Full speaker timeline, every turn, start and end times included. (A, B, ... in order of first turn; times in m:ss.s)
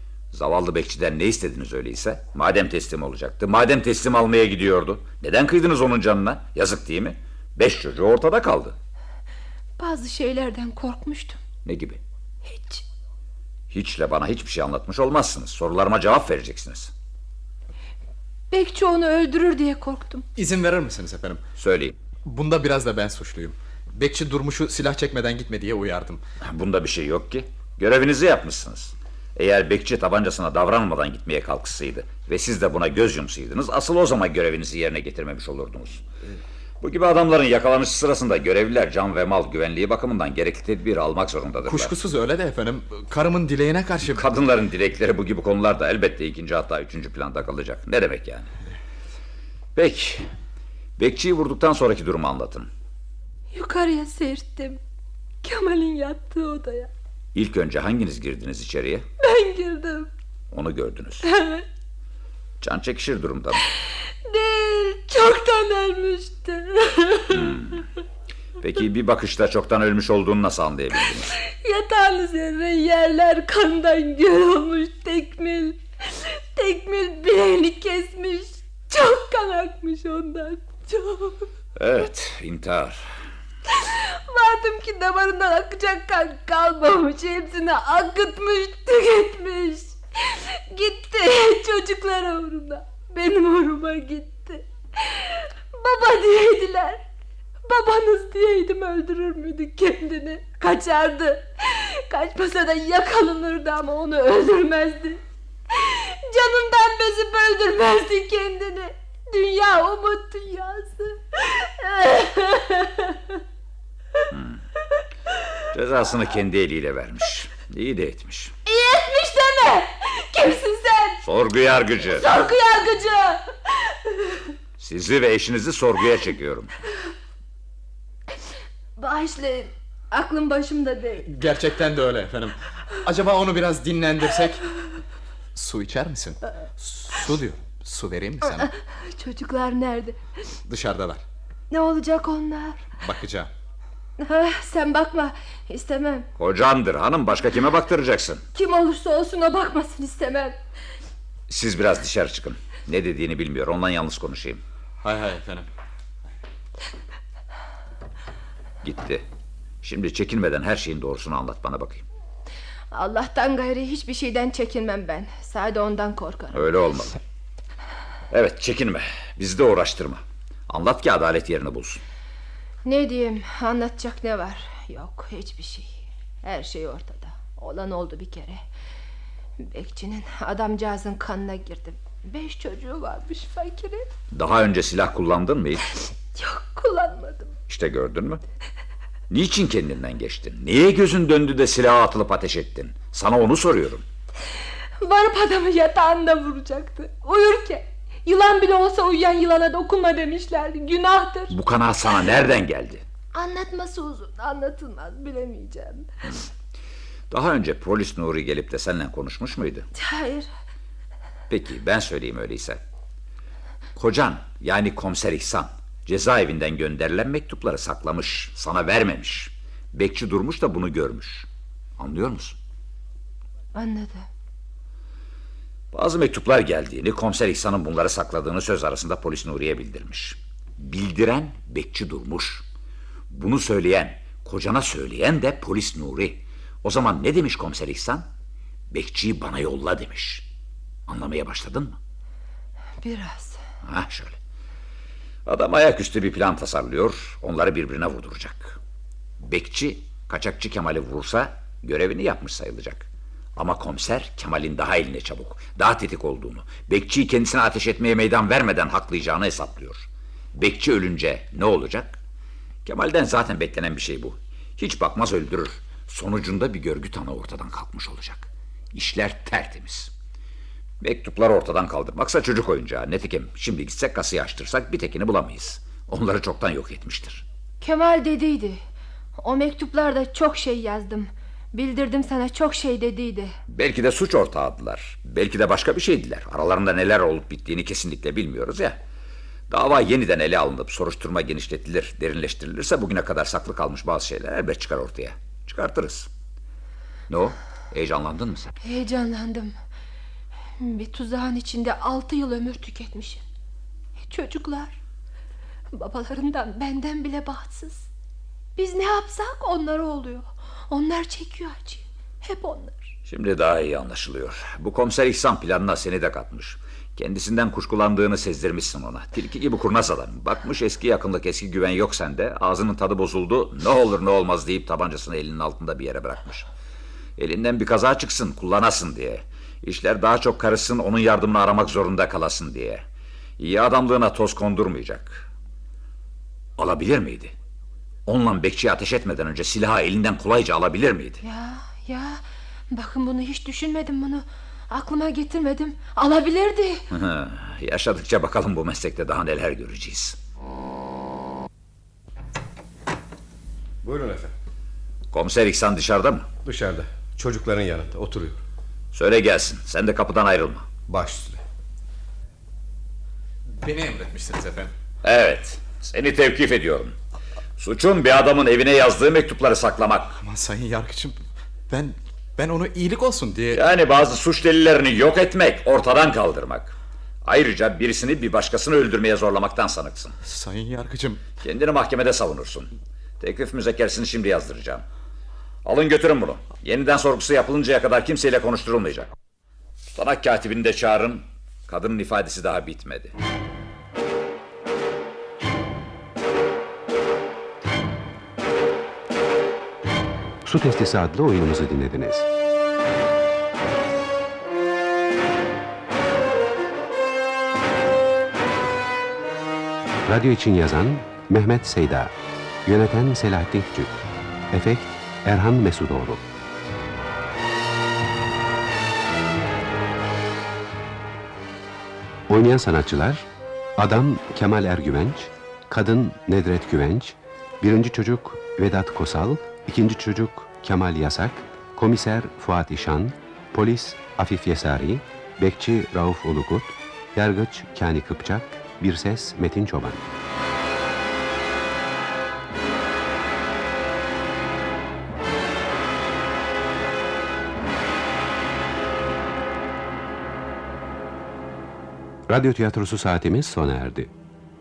0:00.3-0:08.8 A
0:09.8-0:11.4 B
0:11.6-0:12.0 A
0:12.5-0:12.8 B
0:13.7-0:16.9 A
0:18.5-0:20.3 B
0:20.4-0:21.4 C
0:21.6-0:22.0 A
0:22.2-0:26.2 C
0:26.4-0:36.1 A
0:36.8-0:42.0 A
0:41.7-0:44.3 C
0:44.0-0:48.5 A
0:49.8-0:50.3 A
0:51.0-0:52.7 A
0:53.5-0:54.8 B
0:55.4-0:56.9 B
0:57.3-0:59.0 A
0:59.2-1:00.1 B
1:00.5-1:01.3 A
1:01.2-1:01.7 B
1:02.6-1:03.6 A
1:04.2-1:07.8 B
1:07.3-1:07.8 A
1:08.6-1:11.4 A
1:11.4-1:21.5 B
1:21.8-1:23.0 A
1:23.7-1:37.0 B
1:37.7-1:45.2 B
1:45.7-1:53.4 B
1:54.3-1:54.6 A
1:55.7-1:58.5 A
1:58.7-2:01.2 B
2:01.2-2:02.3 A
2:02.2-2:04.5 B
2:04.8-2:06.7 A
2:09.0-2:11.3 B
2:11.3-2:14.6 C
2:15.5-2:18.7 C
2:18.5-2:20.2 B
2:20.7-2:21.2 C
2:21.7-2:22.8 B
2:23.0-2:23.5 C
2:24.2-2:26.3 B
2:26.4-2:28.4 A
2:28.5-2:30.6 B
2:31.5-2:34.6 A
2:35.0-2:35.7 C
2:38.8-2:39.2 A
2:39.8-2:42.1 A
2:42.9-2:46.7 B
2:46.5-2:47.2 A
2:48.3-2:52.0 A
2:52.8-2:58.6 B
2:59.6-3:04.1 B
3:04.3-3:05.9 A
3:06.4-3:07.5 B
3:07.7-3:08.4 A
3:09.3-3:14.0 A
3:15.0-3:21.6 B
3:21.5-3:23.0 A
3:23.3-3:26.1 B
3:27.3-3:29.9 A
3:30.0-3:30.5 B
3:31.5-3:32.8 A
3:34.0-3:42.6 A
3:43.8-3:44.3 B
3:45.9-3:52.6 A
3:53.3-3:58.3 A
3:58.9-4:00.5 A
4:01.1-4:02.0 A
4:03.0-4:03.6 B
4:03.8-4:04.4 A
4:05.5-4:08.8 A
4:09.4-4:22.2 A
4:22.8-4:30.1 A
4:31.0-4:37.4 A
4:37.8-4:38.8 B
4:39.4-4:43.5 B
4:43.7-4:49.0 A
4:49.7-4:56.3 A
4:57.3-4:58.8 A
4:58.8-4:59.8 B
5:00.8-5:03.4 B
5:04.2-5:05.0 B
5:05.9-5:08.1 B
5:08.8-5:13.1 B
5:13.3-5:26.7 A
5:27.4-5:33.0 A
5:33.6-5:35.5 A
5:36.8-5:37.5 A
5:38.3-5:41.4 A
5:41.4-5:47.1 B
5:47.1-5:50.4 A
5:54.0-5:54.5 D
5:55.3-5:56.5 A
5:56.6-5:58.6 D
5:59.1-6:00.9 A
6:01.1-6:01.6 D
6:03.7-6:04.9 C
6:05.2-6:07.2 A
6:07.8-6:10.4 A
6:10.4-6:11.4 C
6:11.9-6:13.8 C
6:13.7-6:20.4 A
6:20.4-6:21.5 C
6:21.6-6:25.1 A
6:25.8-6:29.3 A
6:30.1-6:33.4 A
6:40.6-6:42.5 E
6:50.3-6:52.3 E
6:52.8-6:56.4 E
7:02.5-7:03.5 E
7:04.0-7:20.2 E
7:32.5-7:34.3 E